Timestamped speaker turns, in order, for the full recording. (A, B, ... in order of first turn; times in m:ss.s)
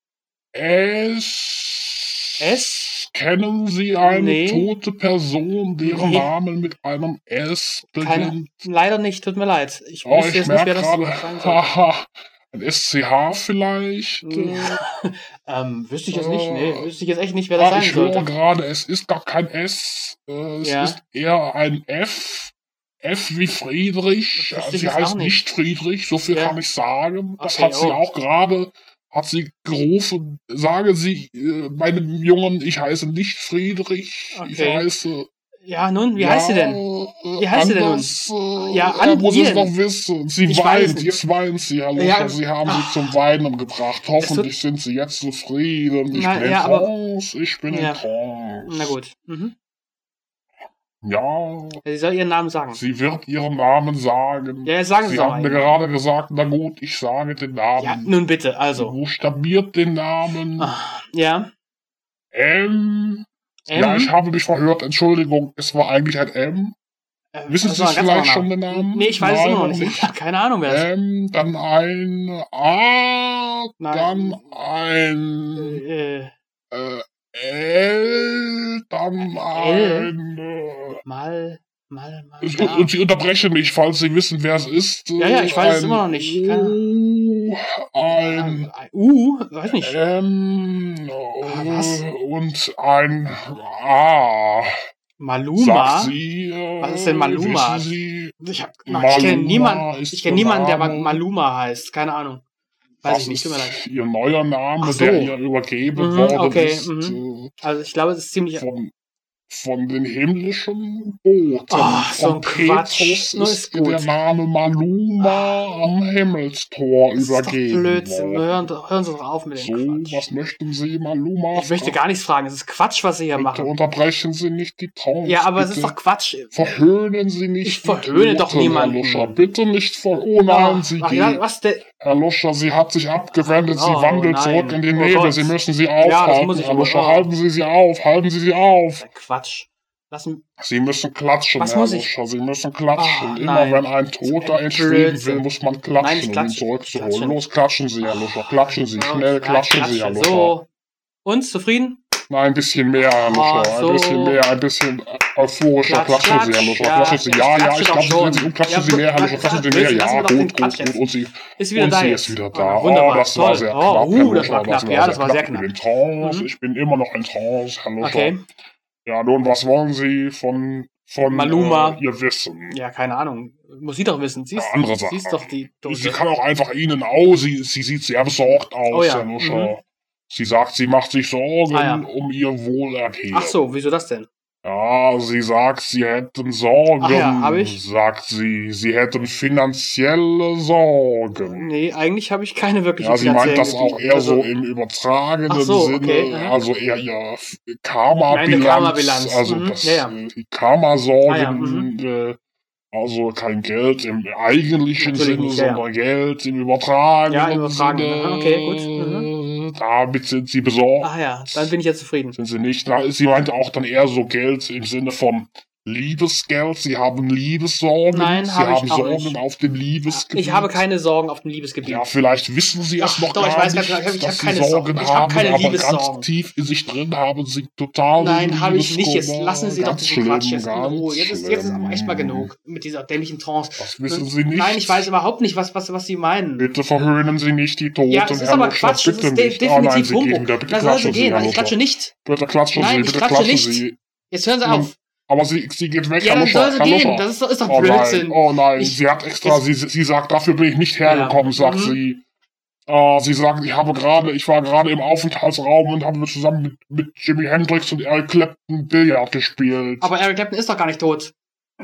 0:00.5-0:08.6 A
0:02.4-0:02.8 B
0:04.0-0:04.7 B
0:05.8-0:06.3 B
0:08.0-0:11.7 B
0:10.0-0:14.8 A
0:14.2-0:18.3 B
0:16.1-0:16.9 A
0:17.6-0:35.3 A
0:20.6-0:21.0 B
0:24.4-0:25.4 B
0:26.3-0:26.6 B
0:27.4-0:28.0 B
0:34.3-0:34.9 B
0:35.6-0:36.8 B
0:36.2-0:49.0 A
0:37.4-0:39.7 B
0:40.4-0:41.2 B
0:42.0-0:43.2 B
0:44.2-0:44.5 B
0:46.1-0:46.9 B
0:47.7-0:48.0 B
0:48.6-0:49.6 B
0:51.0-0:51.8 A
0:51.8-0:52.8 B
0:52.7-0:58.1 A
0:54.6-0:55.8 B
0:57.8-0:59.0 B
0:58.8-1:00.7 A
1:00.6-1:01.5 B
1:02.3-1:06.8 A
1:03.7-1:04.1 B
1:07.3-1:10.9 B
1:07.5-1:10.1 A
1:10.6-1:15.8 A
1:13.8-1:14.6 B
1:15.6-1:16.3 B
1:16.7-1:21.0 A
1:19.5-1:20.1 B
1:21.0-1:23.0 B
1:22.4-1:28.7 A
1:25.2-1:26.8 B
1:28.1-1:30.0 B
1:29.7-1:34.7 A
1:31.4-1:32.0 B
1:35.2-1:36.2 B
1:35.6-1:38.4 A
1:36.8-1:42.4 B
1:38.9-1:41.2 A
1:43.0-1:43.8 B
1:43.0-1:47.5 A
1:44.8-1:45.4 B
1:46.0-1:48.7 B
1:48.6-1:48.9 A
1:49.5-1:58.7 A
1:51.7-1:54.1 B
1:55.2-1:55.7 B
1:57.2-2:00.3 B
1:59.6-2:02.0 A
2:01.5-2:03.7 B
2:03.4-2:06.0 A
2:05.2-2:06.8 B
2:06.5-2:11.4 A
2:07.6-2:09.4 B
2:10.4-2:11.8 B
2:12.0-2:19.1 A
2:13.3-2:17.3 B
2:19.0-2:20.4 B
2:20.6-2:30.6 A
2:21.6-2:22.1 B
2:23.0-2:25.5 B
2:26.0-2:27.4 B
2:28.0-2:30.7 B
2:31.2-2:32.0 B
2:32.3-2:48.4 A
2:33.1-2:34.4 B
2:35.8-2:46.5 B
2:48.0-2:48.4 B
2:49.0-2:52.8 A
2:51.3-2:52.0 B
2:52.7-2:56.2 B
2:54.6-3:03.6 A
2:58.9-2:59.7 B
3:01.7-3:02.1 B
3:03.3-3:04.3 B
3:04.6-3:11.7 A
3:07.0-3:07.8 B
3:11.4-3:14.5 B
3:13.0-3:22.4 A
3:15.5-3:16.6 B
3:18.3-3:20.2 B
3:21.3-3:21.9 B
3:22.9-3:31.7 A
3:25.0-3:25.8 B
3:27.3-3:29.3 B
3:31.0-3:32.4 B
3:32.4-3:40.8 A
3:38.1-3:39.4 B
3:40.1-3:42.1 B
3:41.8-3:52.5 A
3:43.0-3:46.3 B
3:48.2-3:56.7 B
3:53.8-3:55.1 A
3:56.6-4:04.0 A
3:58.1-4:02.1 B
4:02.7-4:05.0 B
4:04.6-4:12.2 A
4:06.2-4:09.6 B
4:11.0-4:12.0 B
4:12.9-4:20.1 A
4:20.0-4:21.3 B